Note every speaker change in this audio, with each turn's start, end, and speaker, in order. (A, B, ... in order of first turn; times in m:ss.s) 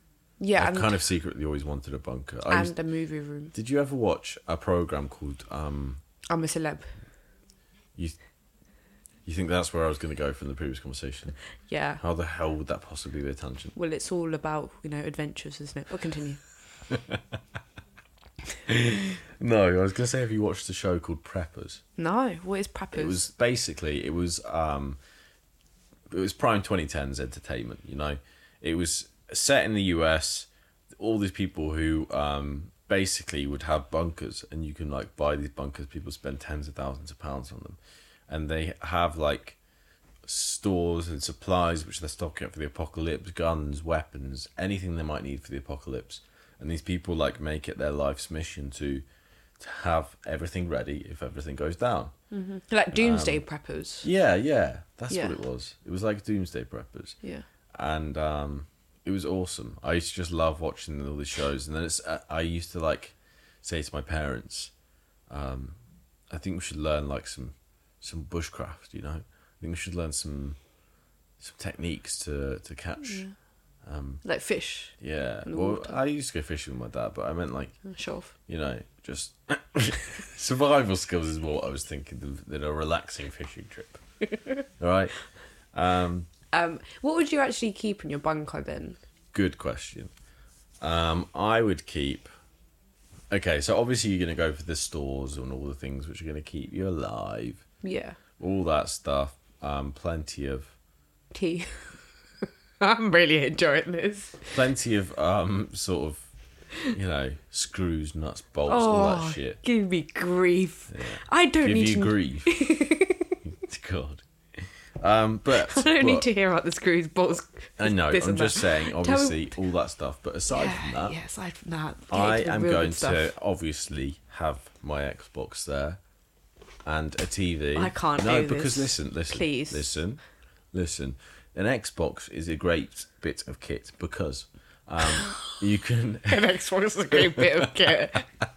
0:00.4-0:01.0 A
0:00.6-0:02.7 B
0:02.5-0:03.5 A
0:03.5-0:06.0 B
0:06.3-0:07.0 A
0:09.2-0:11.4 B
0:11.7-0:12.0 A
0:12.0-0:13.7 B
0:13.7-0:16.4 A
0:16.9-0:17.4 B
0:18.7-0:21.8 B
0:22.0-0:23.2 A
0:22.9-0:25.0 B
0:26.1-0:37.8 B
0:38.3-0:39.6 B
0:40.2-0:49.0 B
0:49.6-0:52.1 B
0:52.3-0:54.1 A
0:52.9-0:53.4 B
0:54.0-0:57.2 B
0:55.1-0:55.4 A
0:57.7-1:04.7 B
1:05.3-1:05.8 B
1:06.3-1:10.6 B
1:11.4-1:13.3 B
1:13.0-1:13.3 A
1:13.8-1:14.2 B
1:14.2-1:16.0 A
1:15.0-1:17.8 B
1:17.8-1:18.3 A
1:18.5-1:24.0 B
1:24.8-1:25.1 B
1:25.7-1:26.3 B
1:26.5-1:29.0 A
1:29.3-1:30.1 B
1:30.8-1:32.3 B
1:33.3-1:37.6 B
1:37.8-1:38.2 A
1:38.4-1:40.7 B
1:41.3-1:44.5 A
1:44.5-1:46.3 B
1:46.9-1:49.6 B
1:48.7-1:53.4 A
1:50.9-1:52.6 B
1:53.4-1:56.3 B
1:55.6-1:59.6 A
1:57.8-2:01.2 B
2:00.5-2:03.3 A
2:02.1-2:06.0 B
2:06.8-2:10.2 B
2:07.7-2:09.9 A
2:10.7-2:16.5 B
2:15.2-2:15.6 A
2:16.3-2:18.3 A
2:17.1-2:17.9 B